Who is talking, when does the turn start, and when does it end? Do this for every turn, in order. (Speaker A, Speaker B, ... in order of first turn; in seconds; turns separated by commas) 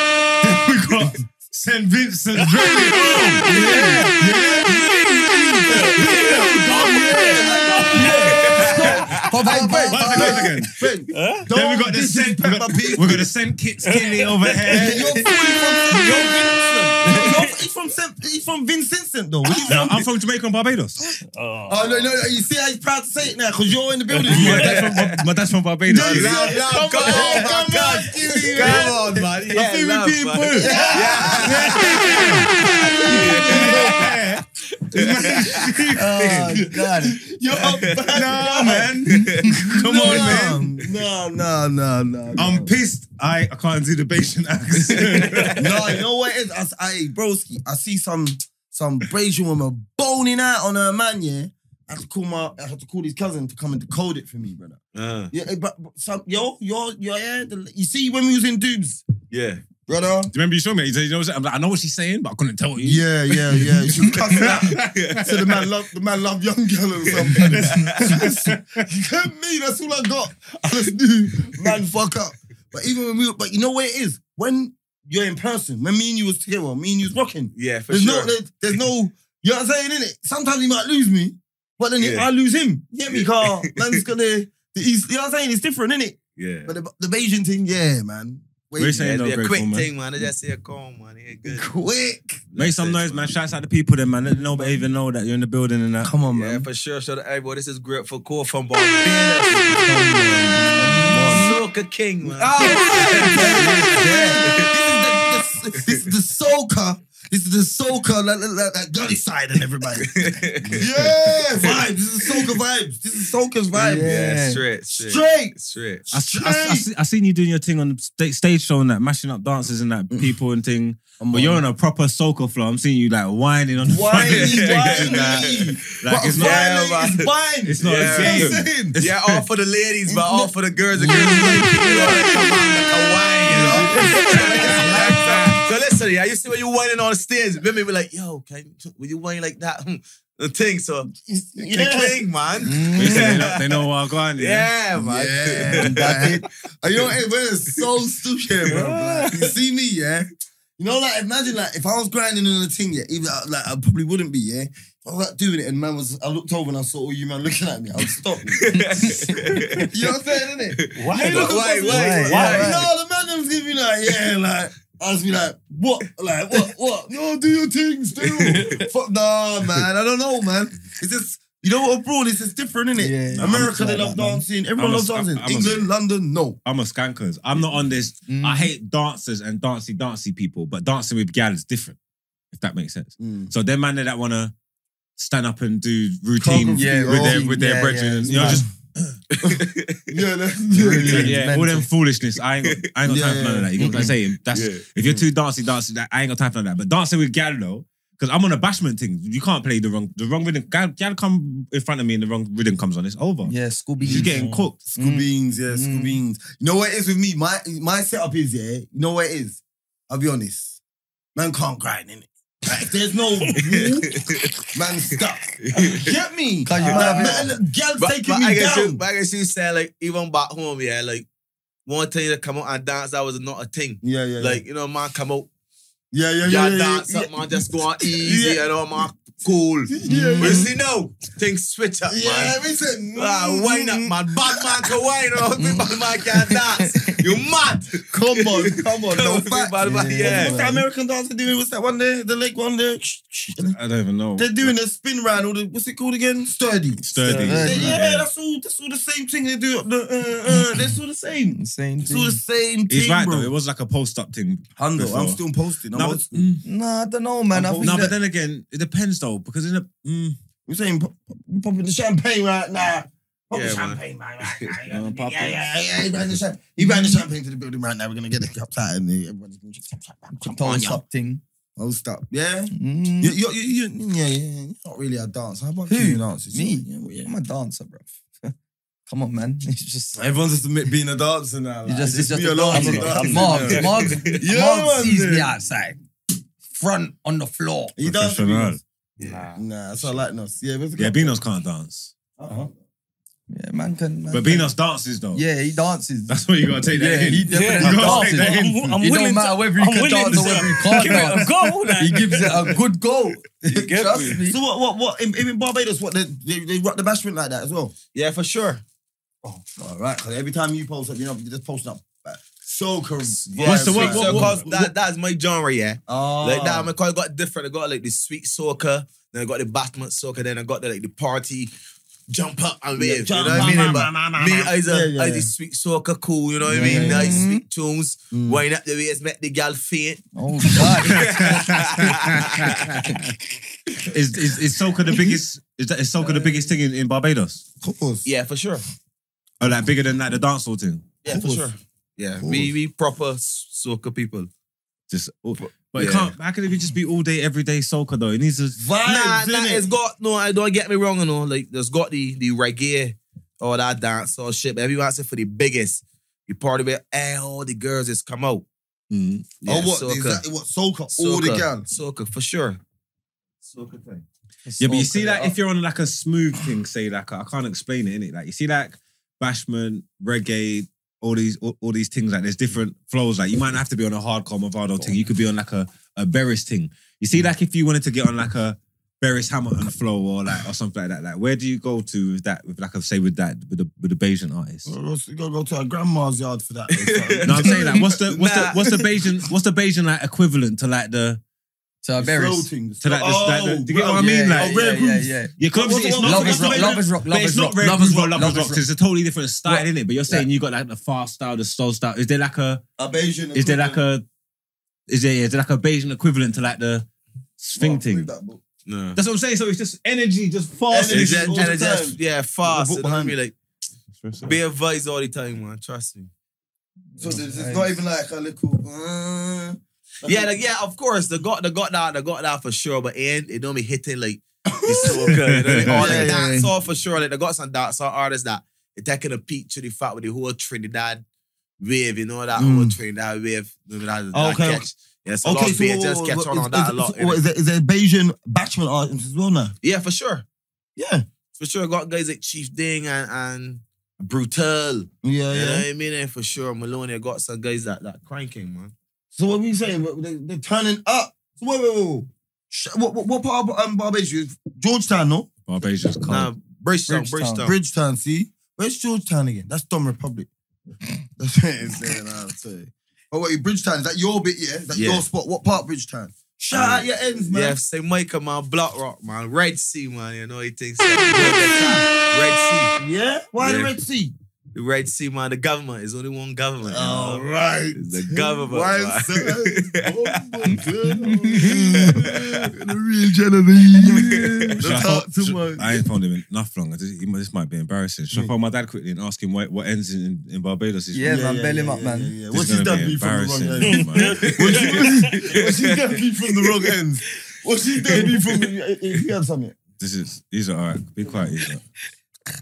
Speaker A: 0.4-4.7, Speaker B: 2.4-3.5, Speaker C: 3.5-4.2, Speaker D: 4.7-13.3, Speaker B: 4.7-8.9, Speaker A: 5.8-7.5, Speaker C: 7.9-10.4, Speaker E: 8.5-9.0, Speaker A: 9.9-10.7, Speaker B: 11.1-11.5, Speaker A: 11.5-15.1, Speaker B: 13.8-14.9, Speaker D: 14.8-20.0, Speaker B: 15.9-17.5, Speaker A: 19.6-21.1, Speaker B: 21.2-22.1, Speaker D: 21.7-24.9, Speaker B: 24.1-25.0, Speaker A: 24.3-32.5, Speaker E: 24.3-25.2, Speaker D: 25.9-28.9, Speaker E: 26.0-32.4, Speaker C: 27.0-27.5, Speaker C: 30.6-33.6, Speaker D: 30.6-34.1, Speaker E: 33.1-36.6, Speaker A: 33.4-36.2, Speaker C: 36.0-37.2, Speaker D: 36.3-39.0, Speaker E: 37.5-38.0, Speaker A: 38.1-40.7, Speaker C: 39.1-39.6, Speaker E: 39.1-39.6, Speaker D: 39.7-42.7, Speaker A: 42.4-45.6, Speaker E: 45.2-45.7, Speaker D: 45.6-54.8, Speaker E: 55.0-55.3, Speaker D: 55.3-59.0, Speaker E: 59.3-59.6, Speaker D: 59.9-60.3, Speaker A: 60.3-65.1, Speaker D: 62.8-89.1, Speaker E: 64.1-65.4, Speaker E: 67.1-68.1, Speaker A: 67.5-68.9, Speaker E: 77.5-78.8, Speaker E: 82.0-82.3, Speaker E: 83.1-84.0, Speaker E: 86.4-86.7, Speaker A: 88.8-89.9, Speaker E: 89.0-91.7, Speaker D: 91.5-92.5, Speaker E: 92.5-93.3, Speaker A: 92.6-96.1, Speaker D: 96.0-96.7, Speaker E: 96.3-100.1, Speaker D: 99.0-101.6, Speaker C: 100.4-101.5, Speaker E: 101.0-104.7, Speaker D: 102.2-110.1, Speaker C: 102.7-103.9, Speaker A: 103.5-104.0, Speaker E: 110.0-110.9, Speaker D: 110.7-114.1, Speaker E: 111.5-112.6, Speaker C: 113.8-114.6, Speaker E: 114.0-116.0, Speaker D: 114.9-115.6, Speaker D: 116.1-116.9, Speaker A: 116.1-126.7, Speaker D: 121.2-121.6, Speaker D: 123.8-129.0, Speaker E: 124.1-125.6, Speaker E: 126.4-127.3, Speaker A: 127.7-129.4, Speaker E: 127.8-146.4, Speaker D: 130.1-132.6, Speaker C: 131.2-131.6, Speaker D: 133.5-135.4, Speaker C: 133.7-134.7, Speaker A: 134.7-135.6, Speaker D: 141.1-142.2, Speaker C: 142.6-143.5, Speaker A: 142.9-144.7, Speaker D: 144.9-158.7, Speaker C: 145.8-146.4, Speaker E: 148.7-149.4, Speaker E: 158.6-159.9, Speaker C: 158.7-159.4, Speaker D: 159.9-176.6, Speaker E: 160.8-162.8, Speaker B: 160.9-162.8, Speaker C: 161.5-162.8, Speaker C: 173.0-174.4, Speaker A: 173.3-173.7, Speaker A: 174.8-175.9, Speaker A: 176.7-182.0, Speaker C: 178.3-178.7, Speaker A: 182.5-184.5, Speaker D: 183.2-183.5, Speaker A: 185.2-189.2, Speaker D: 186.4-187.5, Speaker C: 186.7-188.6, Speaker D: 188.3-188.7, Speaker E: 189.3-190.2, Speaker D: 189.4-191.4, Speaker C: 190.7-191.9, Speaker A: 191.0-204.8, Speaker E: 192.6-192.9, Speaker D: 193.1-194.2, Speaker E: 194.5-195.2, Speaker C: 203.4-204.4, Speaker B: 204.2-204.7, Speaker D: 204.8-210.8, Speaker C: 205.0-206.2, Speaker D: 211.3-214.2, Speaker E: 213.7-214.5, Speaker D: 214.7-219.0, Speaker E: 215.6-216.2, Speaker C: 216.7-217.5, Speaker E: 216.8-217.4, Speaker E: 218.0-221.3, Speaker E: 221.9-225.5, Speaker D: 224.0-224.6, Speaker D: 226.1-228.7, Speaker E: 226.4-232.6, Speaker D: 229.9-230.7, Speaker C: 230.1-230.7, Speaker D: 232.1-234.9, Speaker E: 233.2-240.6, Speaker C: 235.6-237.2, Speaker D: 238.1-243.8, Speaker C: 239.8-240.8, Speaker A: 243.5-244.7, Speaker D: 244.4-253.5, Speaker A: 247.0-248.3, Speaker C: 247.2-248.0, Speaker C: 251.6-252.4, Speaker A: 252.9-255.4, Speaker D: 254.8-256.5, Speaker A: 255.9-256.6, Speaker C: 256.6-258.1, Speaker D: 257.5-258.1, Speaker A: 257.8-260.4, Speaker D: 260.7-271.0, Speaker E: 263.5-264.8, Speaker A: 264.9-265.6, Speaker C: 266.8-267.2, Speaker C: 270.5-271.4, Speaker E: 270.6-271.0, Speaker D: 271.8-277.3, Speaker C: 272.7-273.4, Speaker C: 275.9-278.5, Speaker C: 279.1-280.2, Speaker D: 280.2-285.5, Speaker C: 281.9-286.0, Speaker B: 282.7-284.1, Speaker E: 283.3-284.3, Speaker C: 286.7-287.9, Speaker D: 288.0-288.8, Speaker A: 288.0-288.8, Speaker E: 289.2-289.5, Speaker B: 289.2-290.1, Speaker D: 289.5-291.4, Speaker A: 291.0-292.1, Speaker D: 292.4-292.7, Speaker C: 293.5-294.8, Speaker A: 294.3-295.4, Speaker C: 295.3-296.4, Speaker A: 296.3-299.1, Speaker C: 296.9-304.6, Speaker B: 297.5-302.8, Speaker A: 300.3-301.9, Speaker B: 303.7-304.4, Speaker D: 304.4-307.9, Speaker E: 308.1-308.8, Speaker D: 309.7-314.7, Speaker A: 313.5-314.8, Speaker E: 313.6-321.7, Speaker D: 316.1-316.9, Speaker E: 322.3-330.2, Speaker D: 323.0-325.5, Speaker C: 326.6-327.6, Speaker D: 326.7-327.4, Speaker D: 328.3-328.6, Speaker C: 330.4-331.4, Speaker E: 330.8-333.0, Speaker A: 331.2-333.3, Speaker A: 334.0-337.6, Speaker D: 335.1-335.4, Speaker D: 337.8-338.3, Speaker E: 338.2-338.8, Speaker A: 339.6-341.2, Speaker E: 341.2-344.5, Speaker D: 341.3-341.8, Speaker D: 342.4-342.7, Speaker A: 345.1-348.8, Speaker E: 346.0-346.3, Speaker D: 348.8-349.9, Speaker E: 349.0-358.7, Speaker A: 359.1-359.5, Speaker D: 359.6-361.9, Speaker E: 359.6-360.4, Speaker E: 361.1-362.8, Speaker E: 363.6-364.2, Speaker C: 364.7-365.6, Speaker A: 364.8-384.9, Speaker D: 384.9-388.1, Speaker E: 386.9-389.1, Speaker A: 387.4-391.4, Speaker C: 392.0-392.7, Speaker D: 392.2-397.1, Speaker A: 393.0-394.8, Speaker C: 394.1-395.6, Speaker A: 395.6-402.8, Speaker C: 396.1-398.8, Speaker C: 399.7-400.4, Speaker D: 403.0-404.0, Speaker A: 403.5-404.2, Speaker A: 405.1-407.1, Speaker A: 407.6-408.3, Speaker D: 407.8-408.6, Speaker E: 408.9-409.2, Speaker A: 409.1-411.7, Speaker D: 410.9-413.4, Speaker E: 410.9-413.6, Speaker A: 414.2-414.6, Speaker E: 414.4-416.3, Speaker C: 417.2-418.0, Speaker D: 417.2-420.5, Speaker E: 420.2-431.2, Speaker D: 424.7-426.7, Speaker A: 425.5-426.3, Speaker E: 431.8-437.4, Speaker D: 432.5-433.0, Speaker D: 434.3-434.9, Speaker D: 435.4-439.7, Speaker E: 439.8-440.4, Speaker D: 441.0-441.2, Speaker E: 441.6-448.9, Speaker D: 445.2-445.9, Speaker D: 449.3-455.5, Speaker A: 455.7-456.5, Speaker E: 456.3-457.7, Speaker C: 457.1-457.7, Speaker D: 457.6-460.5, Speaker D: 461.4-467.8, Speaker E: 464.9-465.2, Speaker E: 466.7-472.9, Speaker D: 473.0-474.3, Speaker E: 473.6-473.9, Speaker E: 474.7-480.8, Speaker D: 476.8-486.0, Speaker C: 480.8-481.7, Speaker E: 481.7-482.7, Speaker E: 484.0-484.7, Speaker C: 484.1-484.5, Speaker A: 484.8-491.4, Speaker C: 491.1-492.4, Speaker D: 491.2-499.8, Speaker A: 492.5-494.6, Speaker B: 493.8-495.4, Speaker E: 494.2-496.0, Speaker E: 496.6-496.9, Speaker E: 498.1-498.4, Speaker A: 500.0-501.8